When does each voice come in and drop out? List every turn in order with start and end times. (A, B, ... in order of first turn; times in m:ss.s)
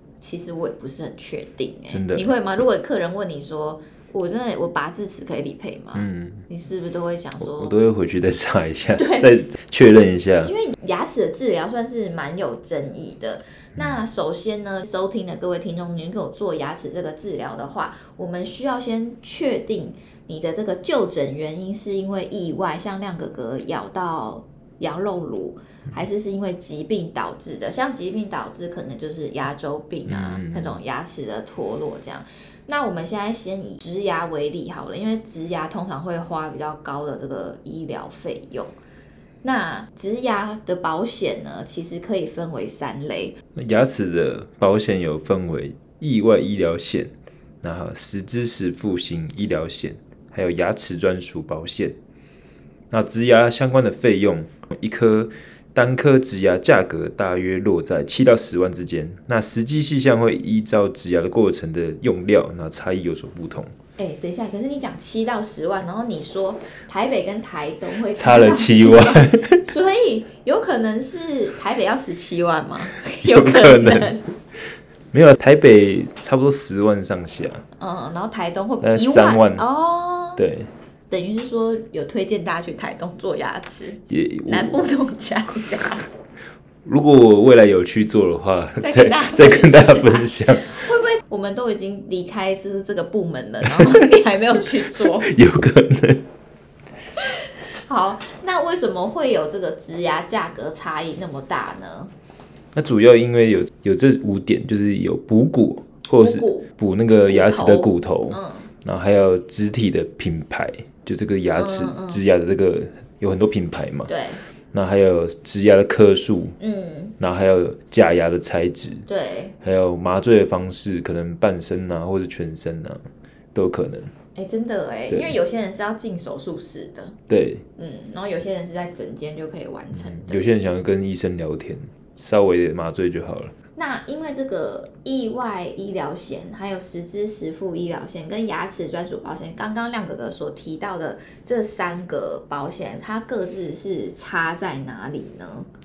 0:00.2-0:07.7 A
0:01.9-0:02.3 B
0:05.9-0:06.5 B
0:07.4-0:10.5 B
0:09.0-0:09.3 A
0:10.4-0:38.8 A
0:13.8-0:14.0 B
0:30.1-0:30.8 B
0:39.4-0:43.4 A
0:43.6-0:52.0 B
0:52.9-1:03.7 B
1:04.0-1:14.3 A
1:08.2-1:09.6 B
1:13.0-1:14.2 B
1:15.1-1:17.6 B
1:17.8-1:20.4 A
1:18.8-1:19.6 B
1:20.4-1:20.7 B
1:21.1-1:26.1 A
1:24.1-1:24.8 B
1:26.8-1:30.8 B
1:28.8-1:35.3 A
1:34.9-1:36.3 B
1:37.2-1:42.1 A
1:42.8-1:54.1 B
1:46.2-1:46.7 A
1:47.3-1:48.7 A
1:51.6-1:52.2 A
1:54.1-1:54.4 A
1:54.7-1:56.6 B
1:56.6-1:57.2 A
1:57.2-1:59.1 B
1:59.1-1:59.6 A
1:59.6-2:04.1 B
2:04.4-2:07.2 A
2:05.1-2:05.4 B
2:07.3-2:07.6 B
2:07.8-2:10.5 A
2:09.9-2:13.5 B
2:13.8-2:25.7 A